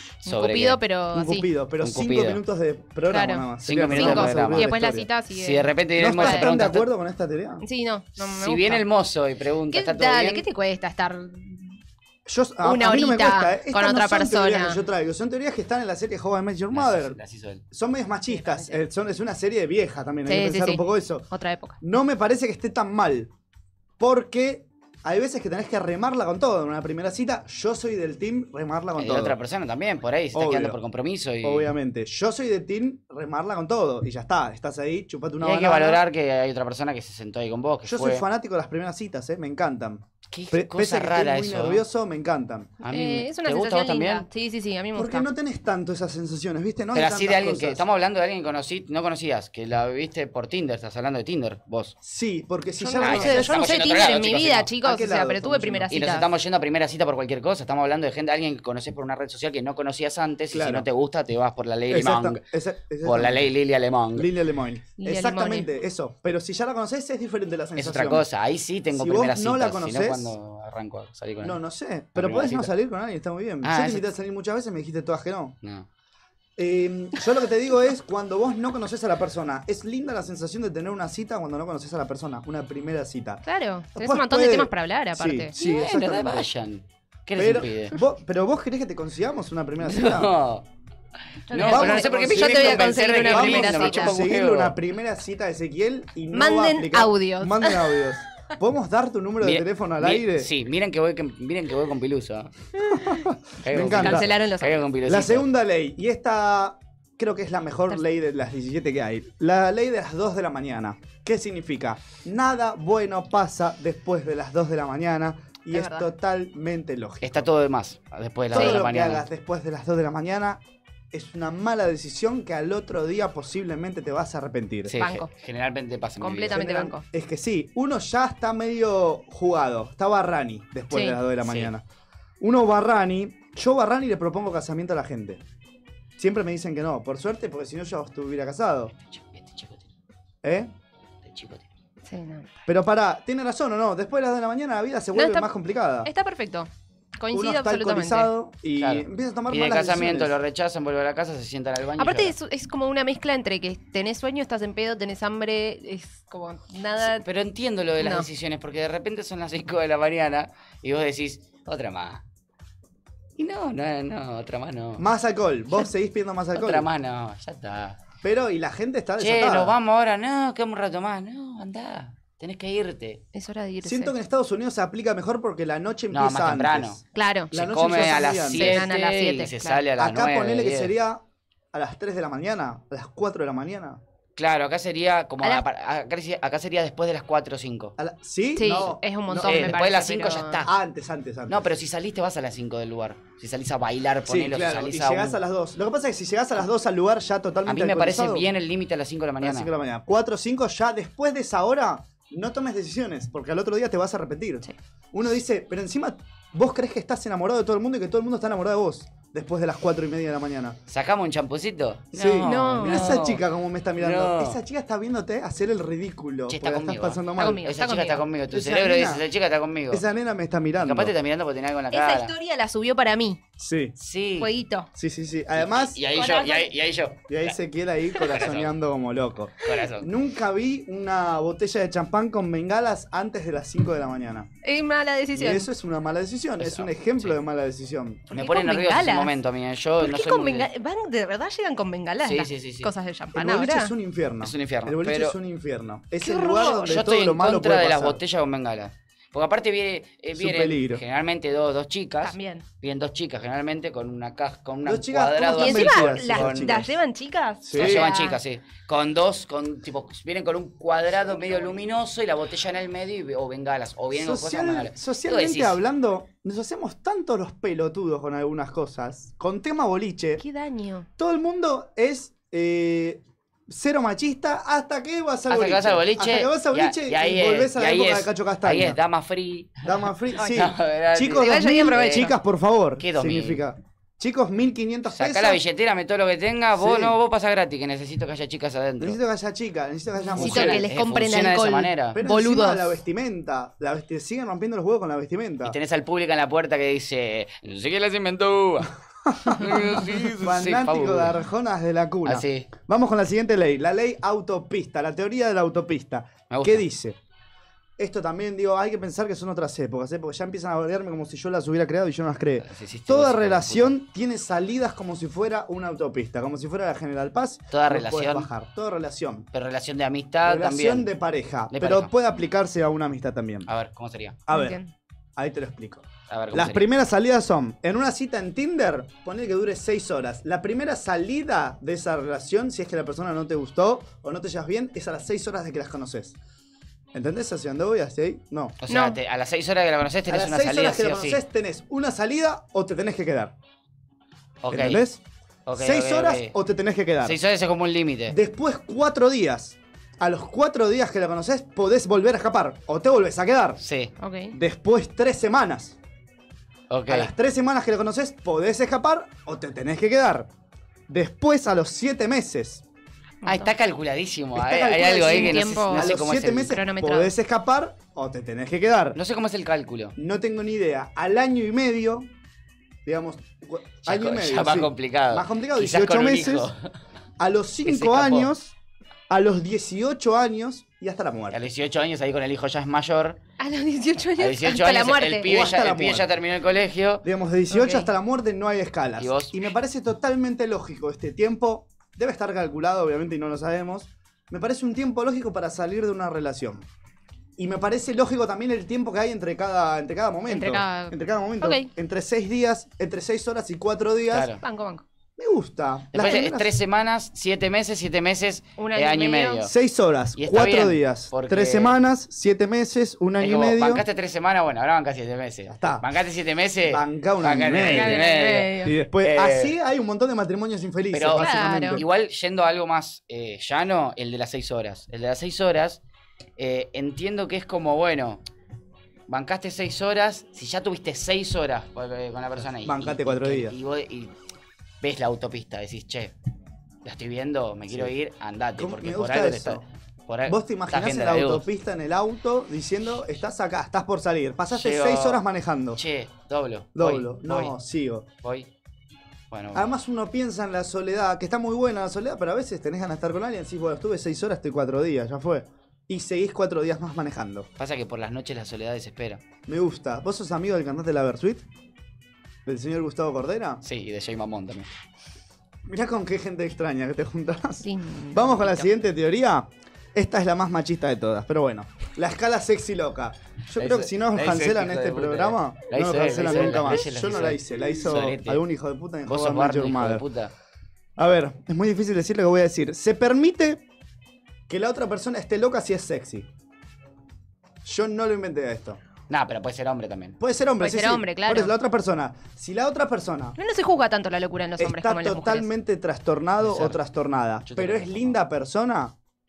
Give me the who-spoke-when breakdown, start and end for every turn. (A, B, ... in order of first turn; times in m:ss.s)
0:00.2-0:00.8 A
0:00.2-0:01.5 B
0:01.1-0:05.1 C
0:01.8-0:02.4 A
0:03.1-0:06.5 B
0:03.6-0:04.7 A
0:05.3-0:06.9 A
0:06.0-0:07.6 C
0:07.6-0:08.8 B
0:08.2-0:10.4 A
0:09.7-0:11.8 B
0:12.3-0:17.2 C
0:12.6-0:14.8 B
0:16.7-0:17.6 A
0:17.7-0:21.3 C
0:18.3-0:18.8 B
0:20.3-0:21.8 B
0:21.8-0:23.3 C
0:24.0-0:29.4 C
0:29.0-0:31.7 A
0:30.3-0:30.8 C
0:31.4-0:36.0 C
0:35.4-0:38.2 A
0:37.8-0:42.8 C
0:40.3-0:41.8 A
0:42.8-0:44.3 A
0:42.9-0:45.3 B
0:45.0-0:47.8 C
0:46.9-0:52.0 A
0:52.0-0:53.6 C
0:52.8-0:56.3 B
0:53.0-0:54.7 A
0:54.8-0:55.9 C
0:55.9-1:02.4 A
1:00.5-1:00.9 C
1:01.9-1:03.5 C
1:03.0-1:04.3 A
1:04.2-1:08.3 C
1:05.0-1:05.7 B
1:07.8-1:11.6 A
1:08.9-1:10.3 C
1:11.4-1:15.6 C
1:12.2-1:12.7 A
1:13.6-1:14.0 A
1:15.6-1:15.9 A
1:16.6-1:26.5 C
1:23.4-1:25.5 B
1:25.6-1:28.0 A
1:27.4-1:30.3 C
1:29.8-1:30.7 A
1:31.5-1:34.2 B
1:31.5-1:34.8 A
1:31.6-1:40.5 C
1:36.3-1:37.9 B
1:39.4-1:42.5 A
1:43.1-1:44.3 C
1:43.6-1:45.5 A
1:43.8-1:44.8 B
1:45.1-1:57.5 C
1:55.7-1:56.1 B
1:57.2-1:59.3 A
1:58.5-2:00.6 C
2:01.1-2:05.0 C
2:04.9-2:06.6 A
2:05.0-2:05.3 B
2:06.2-2:07.0 B
2:06.5-2:11.8 C
2:10.9-2:11.2 B
2:11.4-2:11.7 A
2:12.4-2:15.4 C
2:16.2-2:18.9 C
2:18.9-2:19.9 A
2:20.4-2:20.7 C
2:21.2-2:21.7 A
2:22.0-2:22.5 B
2:22.7-2:26.1 C
2:25.2-2:25.5 B
2:26.0-2:28.3 B
2:27.3-2:30.3 C
2:28.8-2:32.3 A
2:32.0-2:37.2 B
2:37.0-2:42.2 A
2:38.0-2:38.3 B
2:43.4-2:45.0 A
2:45.0-2:46.9 C
2:46.6-2:48.0 A
2:48.2-2:49.8 C
2:49.2-2:53.2 A
2:53.3-2:54.2 B
2:53.8-2:57.0 C
2:56.1-2:57.0 A
2:57.1-2:57.5 B
2:57.5-2:58.9 C
2:57.5-3:00.9 A
2:58.5-2:59.8 B
3:00.0-3:01.2 C
3:01.7-3:04.0 C
3:04.4-3:08.0 A
3:08.0-3:09.8 C
3:08.6-3:10.6 B
3:09.4-3:10.7 A
3:10.6-3:11.7 C
3:11.5-3:15.4 A
3:14.3-3:18.5 C
3:17.7-3:19.7 A
3:19.4-3:30.8 C
3:30.9-3:33.4 A
3:32.1-3:37.6 C
3:32.5-3:33.0 B
3:34.0-3:34.6 A
3:36.5-3:40.0 A
3:37.4-3:38.2 B
3:38.5-3:39.2 C
3:39.9-3:41.1 C
3:40.8-3:42.3 A
3:41.9-3:43.4 B
3:43.6-3:43.9 C
3:44.0-3:44.5 A
3:44.4-3:44.9 B
3:45.0-3:46.0 C
3:45.6-3:47.6 A
3:46.2-3:46.7 B
3:47.3-3:54.5 C
3:48.2-3:48.7 A
3:49.6-3:50.1 A
3:54.6-3:55.7 B
3:55.3-3:58.3 C
3:56.6-3:57.4 A
3:58.3-3:59.3 B
3:58.3-4:00.7 A
4:00.0-4:03.9 B
4:02.2-4:02.9 A
4:03.4-4:08.2 C
4:04.4-4:05.4 A
4:06.2-4:06.9 B
4:06.6-4:16.8 A
4:10.4-4:11.0 C
4:12.2-4:12.6 B
4:14.8-4:16.9 C
4:15.6-4:18.4 B
4:17.6-4:18.1 C
4:17.8-4:25.8 A
4:24.2-4:30.4 C
4:30.4-4:31.1 B
4:31.2-4:39.0 C
4:35.5-4:42.3 A
4:39.8-4:45.6 C
4:41.3-4:42.3 B
4:43.0-4:43.6 A
4:45.1-4:49.2 A
4:46.8-4:47.2 C
4:49.0-4:50.8 C
4:50.3-4:53.0 B
4:50.4-4:52.2 A
4:52.2-4:55.8 C
4:55.6-4:58.9 A
4:59.3-5:07.2 C
4:59.5-5:01.4 A
5:02.2-5:02.7 A
5:06.5-5:06.8 A
5:08.0-5:19.5 C
5:12.6-5:14.0 A
5:17.7-5:18.5 A
5:19.5-5:21.1 A
5:20.4-5:23.7 C
5:21.7-5:22.1 A
5:23.7-5:24.4 A
5:24.5-5:24.8 C
5:24.5-5:24.9 B
5:25.4-5:36.4 C
5:26.3-5:26.9 A
5:37.1-5:38.8 C
5:38.8-5:41.4 A
5:38.9-5:39.2 B
5:40.3-5:43.5 C
5:44.6-5:45.0 A
5:44.7-5:45.2 C
5:45.7-5:46.6 A
5:45.8-5:47.4 C
5:47.2-5:48.4 A
5:48.3-5:53.8 C
5:53.8-5:54.1 A
5:54.2-5:54.6 B
5:54.5-5:56.0 C
5:56.9-5:57.3 A
5:57.1-6:00.5 C
6:01.1-6:02.8 C
6:03.4-6:06.8 A
6:03.4-6:03.7 B
6:04.6-6:09.2 C
6:05.1-6:07.3 B
6:09.2-6:10.2 A
6:10.2-6:12.3 C
6:13.0-6:16.7 C
6:14.0-6:16.8 A
6:17.4-6:18.7 C
6:17.8-6:18.5 A
6:19.3-6:21.6 C
6:21.5-6:23.4 A
6:23.6-6:25.5 B
6:24.4-6:27.2 A
6:25.4-6:26.3 C
6:27.2-6:36.9 C
6:27.7-6:28.1 B
6:29.2-6:29.6 A
6:37.6-6:44.5 C
6:40.5-6:41.9 B
6:44.3-6:44.6 A
6:44.6-6:45.0 B
6:45.4-6:46.7 C
6:46.1-6:49.7 A
6:48.8-6:49.6 B
6:49.6-6:54.0 C
6:50.4-6:52.0 A
6:53.4-6:59.8 A
6:55.7-6:56.0 C
6:56.9-6:58.2 C
6:57.9-6:59.0 B
6:58.8-7:02.0 C
7:01.1-7:06.0 A
7:01.4-7:02.0 B
7:06.6-7:08.4 A
7:09.3-7:14.3 A
7:12.8-7:13.7 C
7:15.0-7:16.3 A
7:17.0-7:21.7 A
7:18.8-7:19.8 C
7:20.5-7:26.0 C
7:24.7-7:25.4 A
7:26.0-7:27.8 A
7:27.0-7:28.3 C
7:28.4-7:28.7 A
7:29.5-7:29.9 A
7:29.7-7:37.7 C
7:37.8-7:39.4 A
7:39.7-7:41.6 C
7:42.7-7:43.8 C
7:43.8-7:44.9 A
7:45.9-8:00.2 C
7:47.8-7:48.9 B
7:53.8-7:58.6 A
7:59.3-8:00.5 A
8:01.2-8:03.8 C
8:04.7-8:06.5 C
8:07.8-8:09.0 C
8:09.3-8:10.4 A
8:10.4-8:13.6 C
8:10.8-8:11.7 B
8:13.6-8:15.7 B
8:14.8-8:19.1 C
8:16.6-8:17.0 A
8:17.6-8:18.4 A